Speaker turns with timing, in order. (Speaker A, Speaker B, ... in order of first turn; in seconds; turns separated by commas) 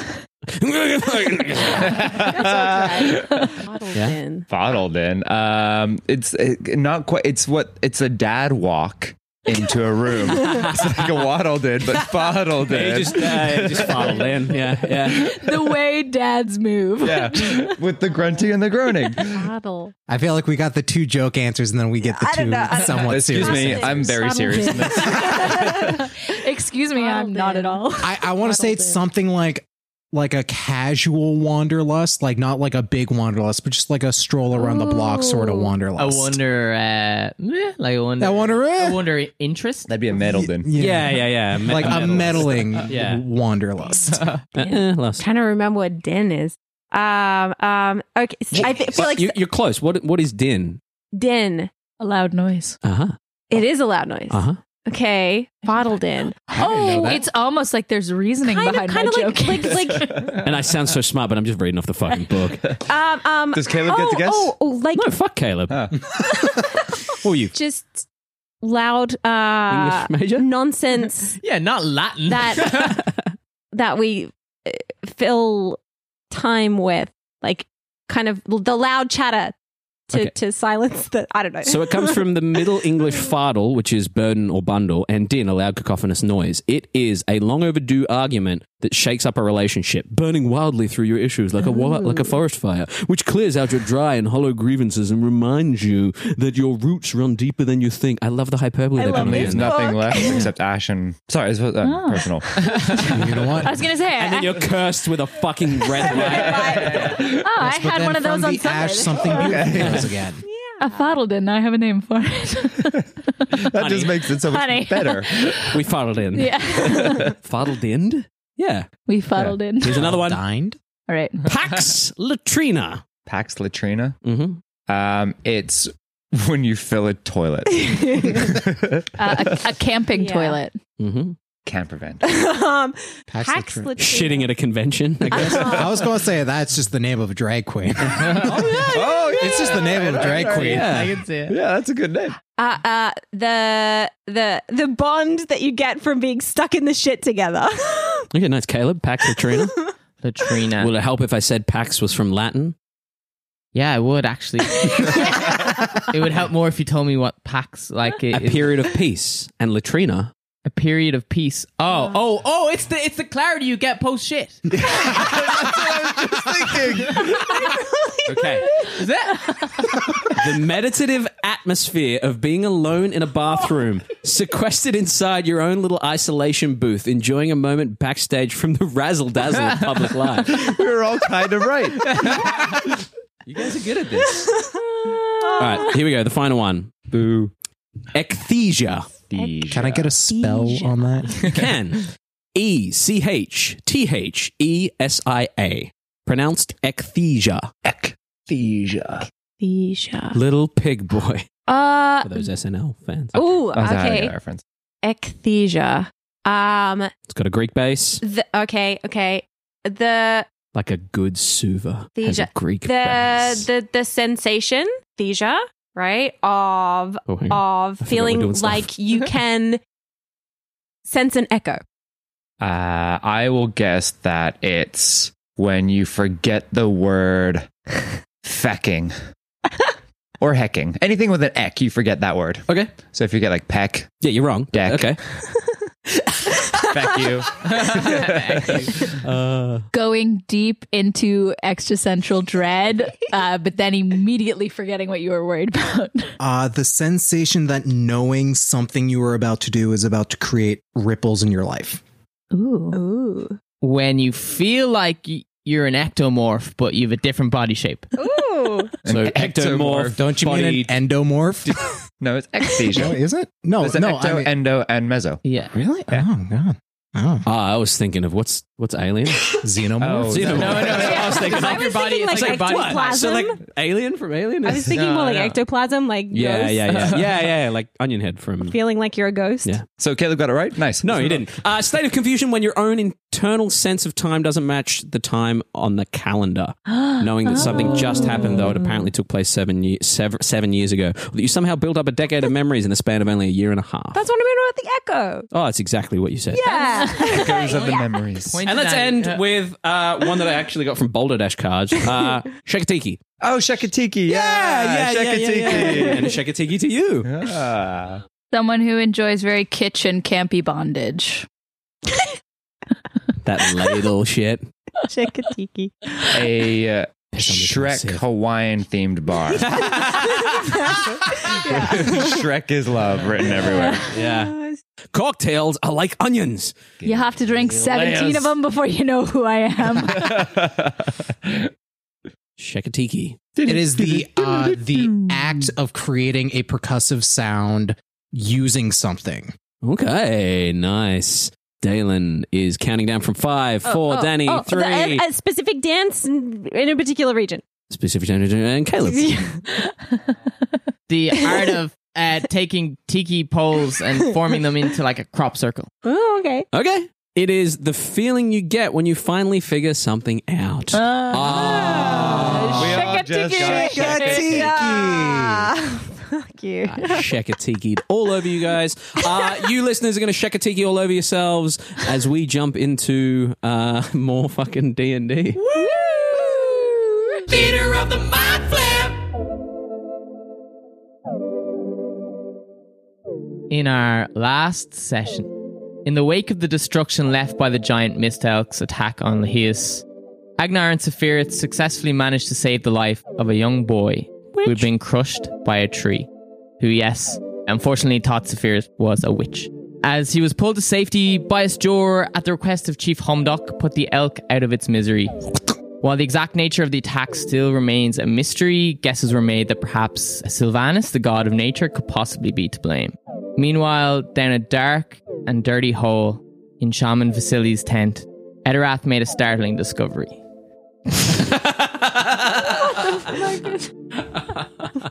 Speaker A: 0.6-2.2, Speaker B: 1.7-3.6, Speaker C: 2.0-4.5, Speaker B: 4.5-15.4, Speaker A: 10.3-11.2, Speaker A: 12.6-15.3, Speaker D: 15.1-17.8, Speaker B: 17.0-19.5, Speaker C: 19.1-19.9, Speaker E: 20.1-24.1, Speaker C: 22.0-26.1, Speaker B: 23.0-26.0, Speaker D: 24.2-27.9, Speaker C: 26.9-29.0, Speaker E: 28.0-36.4, Speaker C: 34.5-35.7, Speaker F: 36.0-39.9, Speaker E: 38.2-39.0, Speaker B: 39.9-40.7, Speaker E: 40.1-44.2, Speaker A: 40.7-43.2, Speaker F: 44.1-44.4, Speaker A: 44.5-45.2, Speaker C: 44.5-49.4, Speaker A: 48.5-50.8, Speaker C: 51.1-51.7, Speaker D: 52.0-52.8, Speaker A: 52.8-53.1, Speaker C: 53.5-56.5, Speaker A: 54.3-54.6, Speaker D: 56.5-60.2, Speaker E: 56.6-57.1, Speaker B: 56.6-57.2, Speaker C: 58.4-60.4, Speaker B: 60.0-60.5, Speaker A: 60.4-62.7, Speaker C: 62.8-65.1, Speaker B: 63.5-64.5, Speaker A: 64.9-65.8, Speaker B: 65.7-66.0, Speaker C: 66.2-67.0, Speaker A: 67.2-67.5, Speaker C: 67.5-68.0, Speaker C: 68.6-71.4, Speaker A: 69.7-70.5, Speaker F: 71.4-73.0, Speaker C: 72.3-72.9, Speaker A: 72.7-73.2, Speaker C: 73.7-75.8, Speaker C: 76.3-79.5, Speaker C: 80.1-82.3, Speaker A: 81.6-100.5, Speaker C: 91.6-92.3, Speaker C: 99.0-100.5, Speaker B: 99.1-103.1, Speaker D: 101.8-104.6, Speaker E: 103.1-103.8, Speaker A: 104.1-107.2, Speaker C: 105.9-107.2, Speaker B: 106.1-107.4, Speaker D: 107.1-109.4, Speaker E: 107.6-110.4, Speaker B: 109.2-110.1, Speaker A: 109.7-110.1, Speaker C: 110.4-111.2, Speaker D: 110.8-113.6, Speaker B: 113.6-115.7, Speaker A: 113.8-114.2, Speaker D: 114.4-115.7, Speaker A: 115.7-118.8, Speaker D: 116.3-117.3, Speaker D: 119.1-120.0, Speaker A: 119.8-120.4, Speaker E: 119.8-120.8, Speaker D: 121.1-121.4, Speaker A: 121.4-123.0, Speaker B: 123.3-124.2, Speaker A: 124.2-124.6, Speaker B: 124.9-129.1, Speaker C: 127.7-128.4, Speaker D: 129.2-130.8, Speaker C: 130.2-130.6, Speaker A: 131.0-131.3, Speaker B: 131.7-132.3, Speaker C: 132.2-134.5, Speaker E: 133.3-133.9, Speaker A: 134.0-135.9, Speaker E: 135.3-141.1, Speaker C: 135.3-136.1, Speaker F: 138.2-139.1, Speaker A: 138.2-138.9, Speaker B: 138.9-140.8, Speaker C: 139.2-139.6, Speaker F: 139.6-141.6, Speaker A: 140.5-141.2, Speaker B: 141.5-142.4, Speaker C: 142.6-148.3, Speaker A: 148.3-149.8, Speaker C: 149.4-149.9, Speaker F: 150.2-150.9, Speaker A: 150.8-152.7, Speaker F: 153.7-158.8, Speaker C: 154.6-155.6, Speaker A: 158.3-160.3, Speaker F: 160.7-164.6, Speaker B: 164.7-168.5, Speaker C: 167.5-169.5, Speaker A: 168.2-168.7, Speaker F: 168.8-169.8, Speaker A: 170.3-180.6, Speaker B: 180.4-182.9, Speaker A: 183.4-184.6, Speaker C: 184.2-186.0, Speaker A: 185.6-186.9, Speaker B: 187.1-187.5, Speaker A: 188.1-189.1, Speaker B: 189.3-190.1, Speaker C: 189.3-191.3, Speaker E: 189.7-191.4, Speaker A: 191.5-197.7, Speaker B: 197.8-199.3, Speaker C: 199.6-200.4, Speaker A: 200.3-201.5, Speaker C: 201.7-202.5, Speaker A: 202.2-203.3, Speaker C: 203.3-204.3, Speaker B: 203.4-204.6, Speaker C: 205.0-207.1, Speaker A: 207.3-208.2, Speaker C: 208.2-210.5, Speaker A: 210.7-213.7, Speaker C: 212.2-219.8, Speaker A: 217.3-218.9, Speaker C: 221.0-221.8, Speaker B: 222.6-227.7, Speaker B: 228.4-229.1, Speaker B: 230.4-234.1, Speaker A: 234.2-235.2, Speaker B: 234.7-235.2, Speaker C: 236.5-237.3, Speaker B: 236.7-239.0, Speaker F: 237.6-239.1, Speaker A: 239.0-239.9, Speaker D: 239.9-246.3, Speaker E: 246.4-252.0, Speaker D: 252.5-253.0, Speaker C: 252.9-253.6, Speaker F: 253.8-258.1, Speaker C: 258.1-258.9, Speaker B: 259.0-260.2, Speaker A: 259.1-260.9, Speaker E: 260.2-261.8, Speaker B: 262.2-263.2, Speaker E: 262.9-264.5, Speaker B: 263.8-265.4, Speaker F: 265.4-265.7, Speaker E: 265.7-267.5, Speaker A: 267.4-269.6, Speaker E: 269.6-271.0, Speaker B: 270.0-271.2, Speaker A: 270.3-275.0, Speaker F: 270.5-273.1, Speaker C: 270.9-273.6, Speaker C: 274.6-277.2, Speaker F: 274.9-275.6, Speaker A: 276.3-278.8, Speaker F: 276.9-277.2, Speaker C: 278.6-279.8, Speaker B: 279.9-281.4, Speaker A: 281.0-294.2, Speaker C: 287.6-289.0, Speaker D: 287.9-288.5, Speaker C: 294.1-295.5, Speaker A: 295.5-296.6, Speaker C: 296.5-298.2, Speaker D: 296.6-297.6, Speaker B: 297.3-298.6, Speaker F: 297.7-299.4, Speaker A: 298.6-303.2, Speaker B: 303.4-306.4, Speaker A: 304.3-307.3, Speaker C: 305.7-306.2, Speaker B: 307.2-308.2, Speaker D: 308.5-311.4, Speaker A: 313.4-314.6, Speaker C: 315.1-316.1, Speaker B: 316.3-319.8, Speaker A: 317.3-318.2, Speaker A: 319.5-320.8, Speaker C: 320.1-322.3, Speaker B: 321.6-324.1, Speaker A: 321.8-322.3, Speaker C: 323.6-324.8, Speaker A: 324.0-324.5, Speaker A: 325.1-326.7, Speaker B: 327.0-328.1, Speaker D: 327.0-330.5, Speaker B: 330.1-331.7, Speaker A: 332.6-333.4, Speaker B: 333.5-335.7, Speaker E: 333.6-339.5, Speaker A: 339.8-345.2, Speaker C: 343.8-347.6, Speaker A: 347.9-349.4, Speaker C: 349.0-349.9, Speaker F: 351.1-355.9, Speaker C: 351.3-351.8, Speaker C: 353.9-354.5, Speaker C: 356.0-356.7, Speaker A: 356.7-363.1, Speaker D: 360.9-364.6, Speaker C: 361.5-367.3, Speaker B: 362.1-364.8, Speaker E: 364.5-365.7, Speaker A: 366.8-375.6, Speaker C: 369.2-369.7, Speaker C: 375.6-377.6, Speaker F: 377.7-379.1, Speaker F: 383.7-390.0, Speaker F: 390.6-396.3, Speaker C: 394.5-394.9, Speaker F: 396.8-420.4, Speaker A: 421.5-422.7, Speaker C: 422.9-423.8